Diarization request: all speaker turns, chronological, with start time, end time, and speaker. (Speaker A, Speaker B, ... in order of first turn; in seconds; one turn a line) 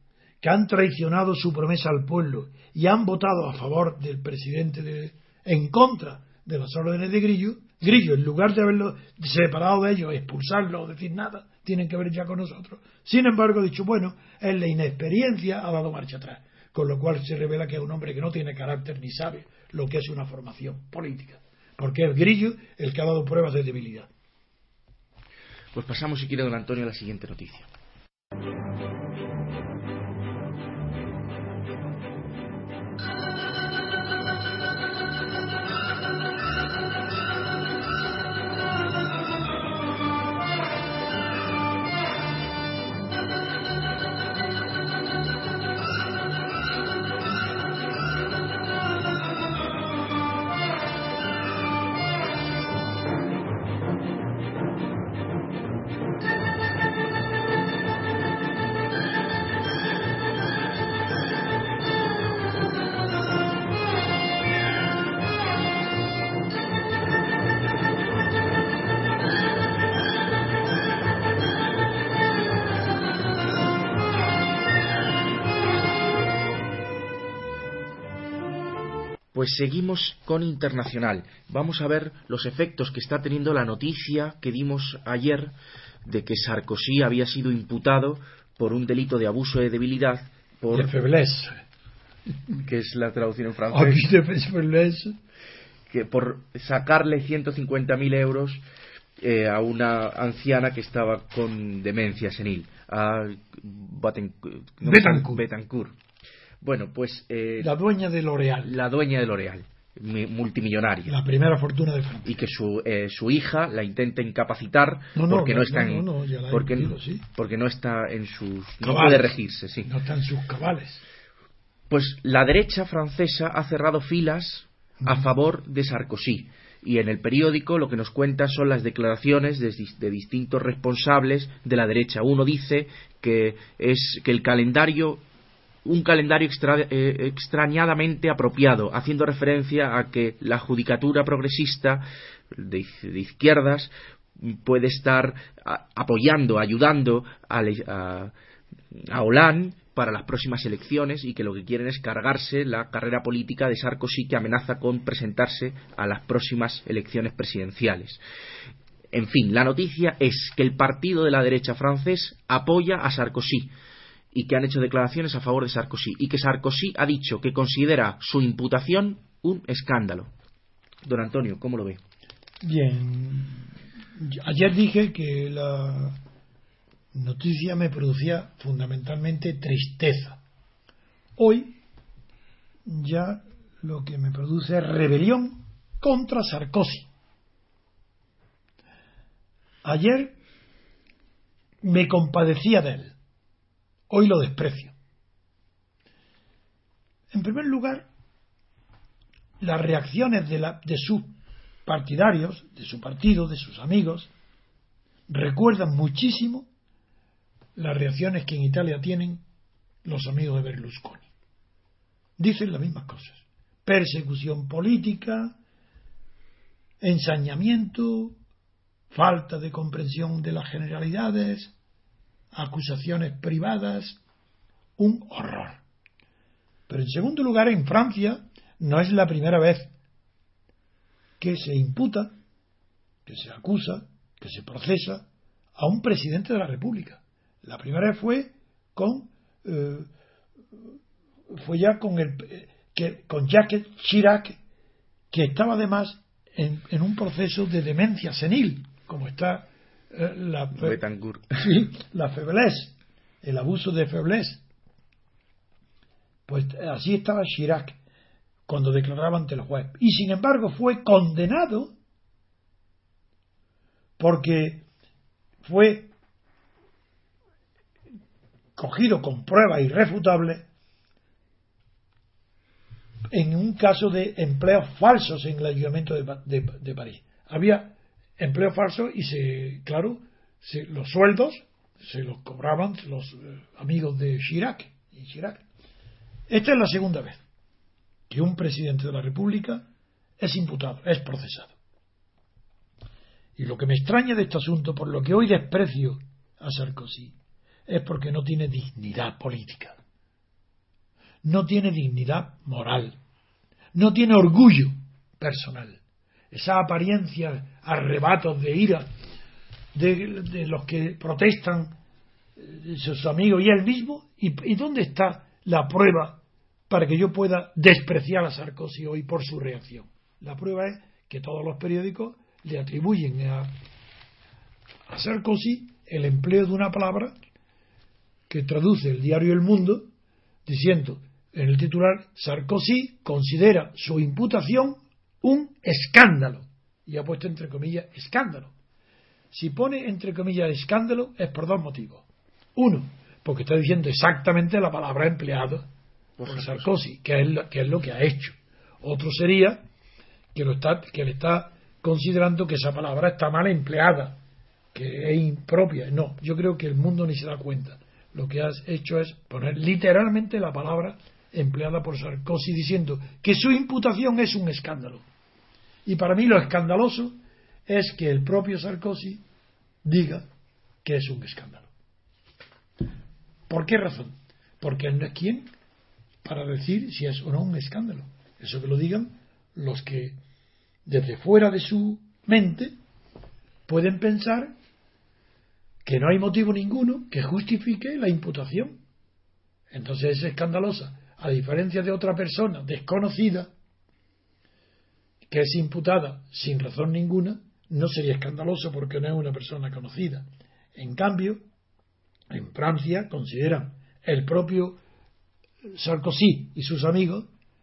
Speaker A: 0.4-24.1
Speaker B: 25.7-27.7
Speaker B: 79.3-85.5
Speaker B: 86.0-90.9
Speaker A: 90.7-91.6
Speaker B: 92.5-94.1
Speaker A: 93.7-95.2
Speaker B: 95.9-98.6
Speaker B: 99.2-106.0
Speaker A: 104.8-105.4
Speaker B: 106.6-107.7
Speaker A: 107.6-108.7
Speaker B: 108.6-111.1
Speaker A: 111.1-112.4
Speaker B: 112.2-119.9
Speaker A: 115.1-117.2
Speaker A: 118.8-121.0
Speaker B: 121.9-135.2
Speaker A: 125.0-125.3
Speaker B: 135.8-148.3
Speaker B: 148.9-158.2
Speaker B: 159.1-163.7
Speaker B: 164.3-170.3
Speaker B: 171.0-172.0
Speaker A: 172.6-176.2
Speaker A: 177.1-180.4
Speaker A: 181.4-181.8
Speaker A: 182.8-187.1
Speaker A: 189.8-190.3
Speaker A: 191.8-193.1
Speaker A: 194.1-194.9
Speaker A: 197.3-198.1
Speaker A: 199.6-201.3
Speaker A: 201.8-204.3
Speaker A: 205.3-206.7
Speaker A: 207.8-209.4
Speaker A: 210.0-211.3
Speaker A: 212.4-215.6
Speaker A: 217.0-218.4
Speaker A: 219.1-221.7
Speaker A: 222.5-224.2
Speaker A: 225.0-225.8
Speaker A: 226.9-229.9
Speaker A: 231.4-232.3
Speaker A: 233.2-240.1
Speaker A: 241.5-244.6
Speaker A: 245.3-251.0
Speaker B: 250.7-251.7
Speaker A: 251.6-254.6
Speaker A: 256.5-258.0
Speaker A: 258.7-261.9
Speaker A: 264.2-264.9
Speaker A: 265.6-266.1
Speaker A: 268.8-270.7
Speaker A: 273.3-285.6
Speaker A: 286.5-287.4
Speaker A: 288.3-289.9
Speaker A: 290.4-291.7
Speaker A: 293.6-297.3
Speaker A: 297.9-300.0
Speaker A: 301.4-303.2
Speaker A: 303.9-306.0
Speaker A: 306.5-309.1
Speaker A: 309.9-311.9
Speaker A: 312.6-323.8
Speaker A: 325.1-327.3
Speaker A: 328.5-330.1
Speaker A: 330.6-338.7
Speaker A: 339.5-345.9
Speaker B: 346.4-346.9
Speaker A: 346.4-349.8
Speaker A: 350.5-354.4
Speaker A: 354.9-365.2
Speaker A: 366.1-369.4
Speaker A: 370.0-370.4
Speaker A: 371.0-371.9
Speaker A: 373.7-375.7
Speaker A: 376.4-380.4
Speaker A: 381.1-382.9
Speaker A: 383.9-384.7
Speaker A: 386.0-389.0
Speaker A: 389.9-393.7
Speaker A: 395.5-401.6
Speaker A: 402.5-405.0
Speaker A: 405.9-407.5